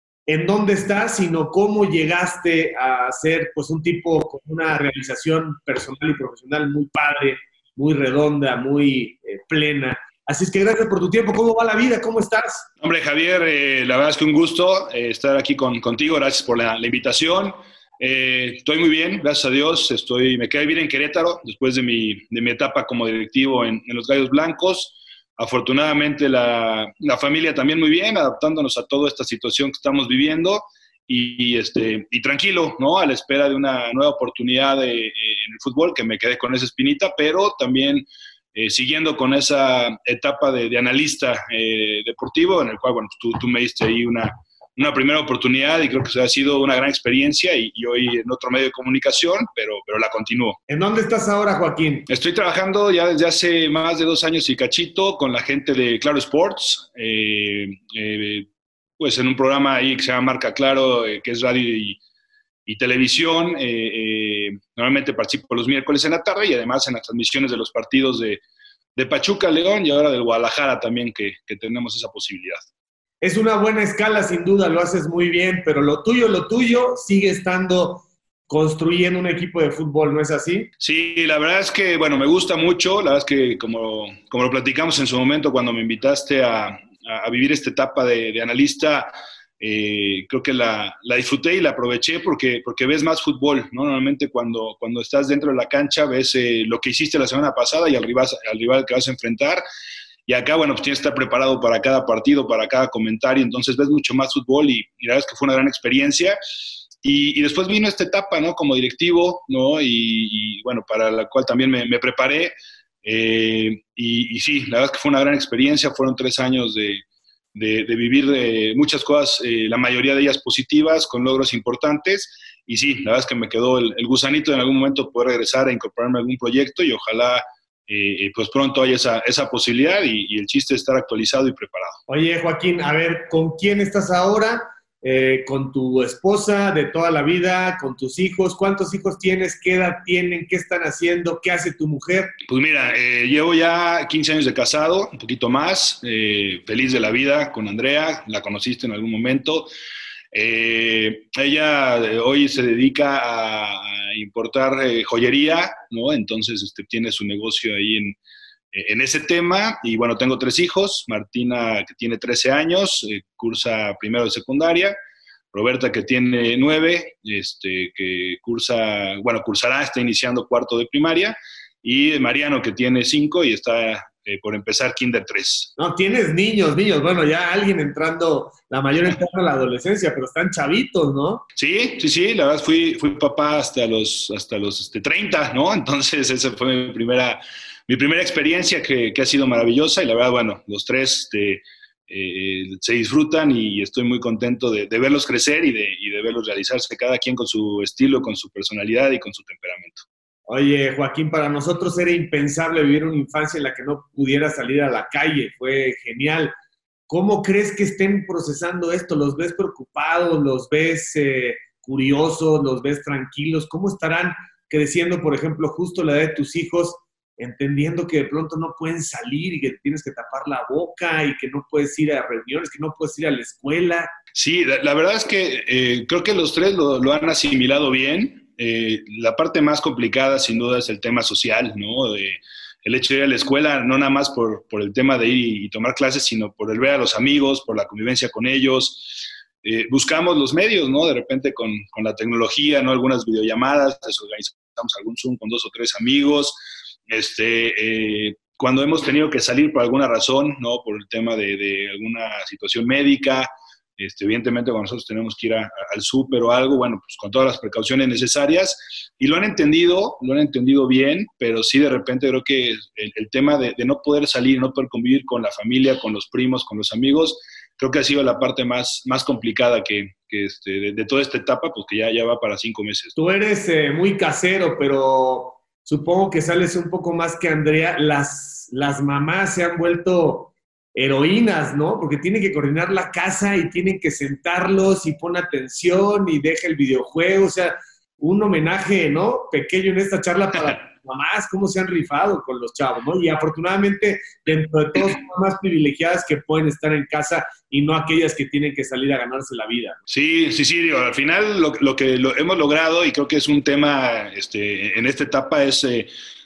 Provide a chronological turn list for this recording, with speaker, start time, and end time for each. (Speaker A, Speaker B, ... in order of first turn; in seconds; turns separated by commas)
Speaker A: 0.3-12.7, Speaker B: 12.8-50.6, Speaker A: 50.7-52.0, Speaker B: 52.1-62.0, Speaker B: 62.6-68.4, Speaker B: 68.9-72.7, Speaker A: 73.2-80.7, Speaker B: 80.8-99.6, Speaker B: 100.3-106.4, Speaker B: 107.0-112.5, Speaker B: 113.0-117.0, Speaker B: 117.5-132.0, Speaker A: 132.1-142.3, Speaker B: 142.5-149.7, Speaker B: 150.3-158.2, Speaker B: 158.7-164.9, Speaker B: 165.5-175.7, Speaker A: 175.8-181.4, Speaker B: 181.5-200.0, Speaker A: 200.5-206.5, Speaker A: 207.1-224.1, Speaker B: 224.3-273.1, Speaker A: 273.1-300.0, Speaker B: 300.1-306.1